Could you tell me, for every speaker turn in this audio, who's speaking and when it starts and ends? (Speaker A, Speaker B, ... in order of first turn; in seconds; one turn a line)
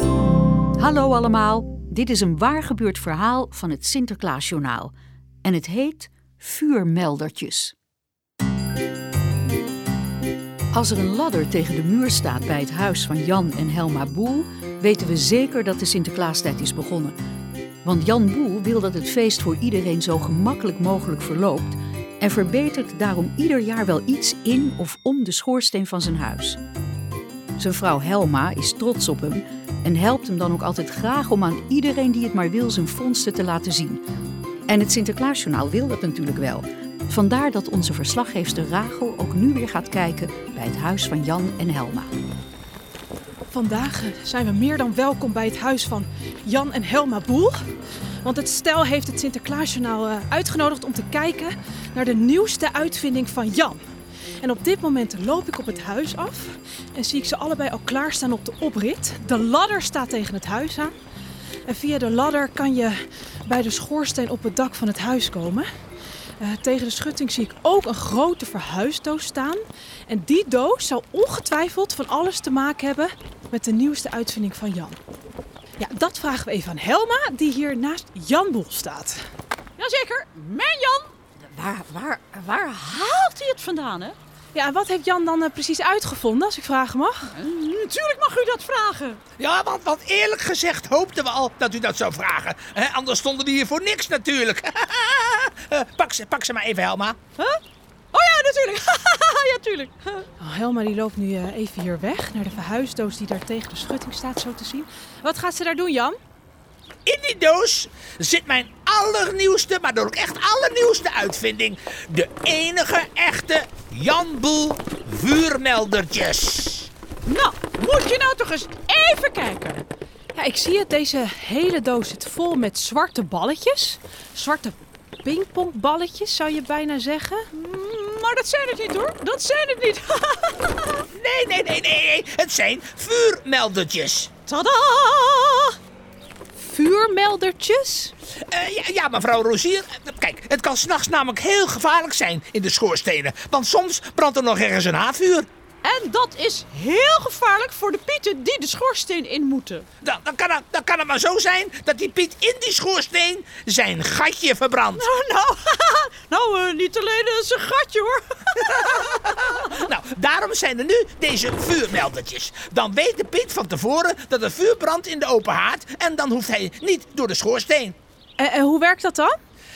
Speaker A: 0.8-7.7
Speaker A: 10.7-17.2
Speaker A: 17.8-26.6
Speaker A: 27.6-34.0
Speaker A: 34.7-42.1
Speaker B: 43.5-47.7
Speaker B: 48.2-53.8
Speaker B: 54.4-60.9
Speaker B: 61.7-65.7
Speaker B: 66.4-75.0
Speaker B: 75.8-79.3
Speaker C: 79.8-84.2
Speaker B: 84.5-87.3
Speaker C: 87.3-89.2
Speaker D: 89.4-97.2
Speaker C: 98.1-100.3
Speaker B: 100.4-106.2
Speaker D: 107.0-116.9
Speaker C: 117.3-119.8
Speaker B: 120.3-127.5
Speaker C: 127.5-131.0
Speaker D: 131.1-134.3
Speaker C: 134.5-135.8
Speaker B: 136.6-138.1
Speaker D: 138.5-145.5
Speaker C: 145.8-149.8
Speaker D: 150.0-155.0
Speaker C: 154.9-159.7
Speaker D: 158.9-167.9
Speaker B: 168.4-169.3